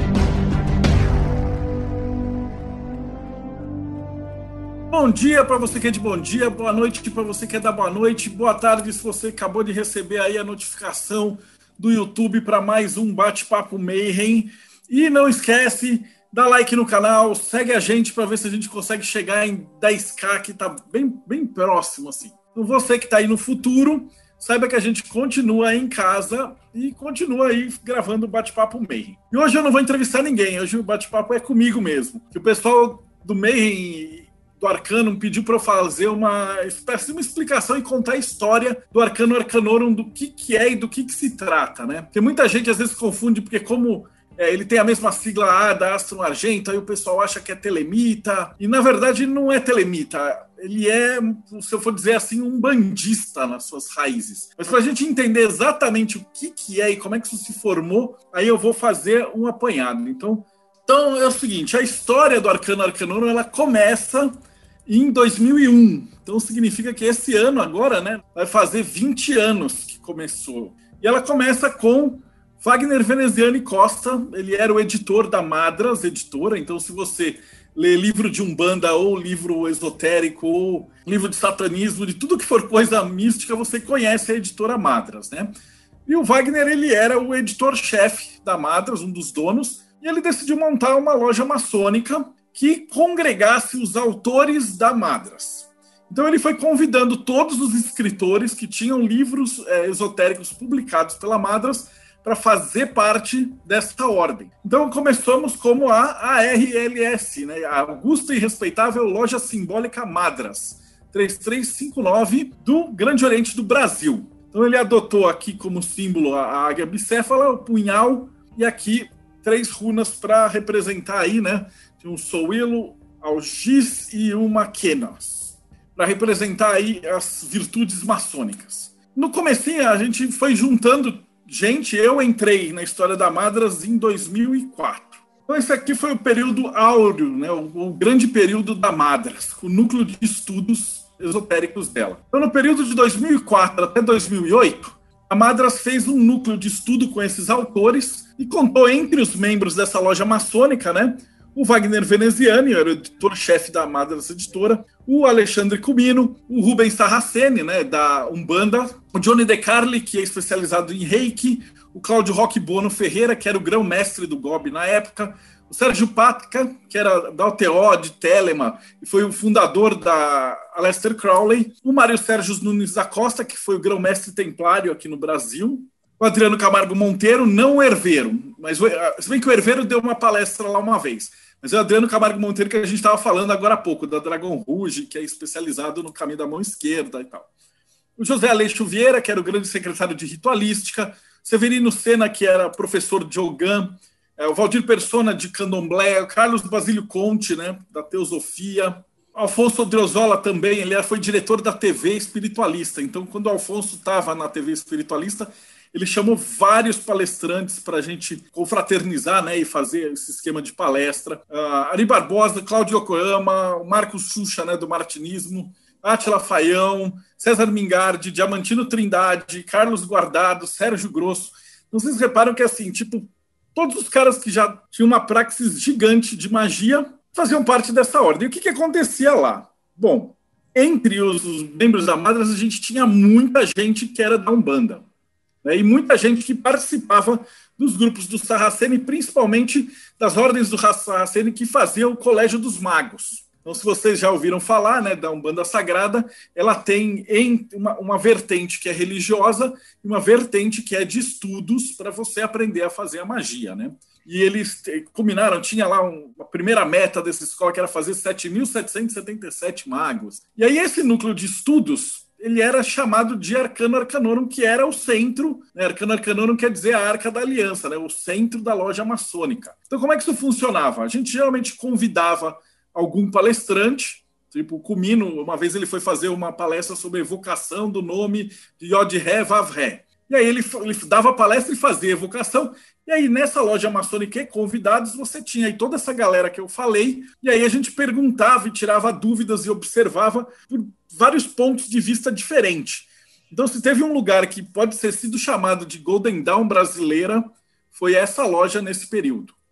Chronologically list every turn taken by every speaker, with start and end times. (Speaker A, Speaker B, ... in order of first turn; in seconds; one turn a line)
Speaker A: 4.9-64.3
Speaker A: 64.9-85.5
Speaker A: 86.1-187.5
Speaker A: 188.2-235.1
Speaker A: 235.6-299.6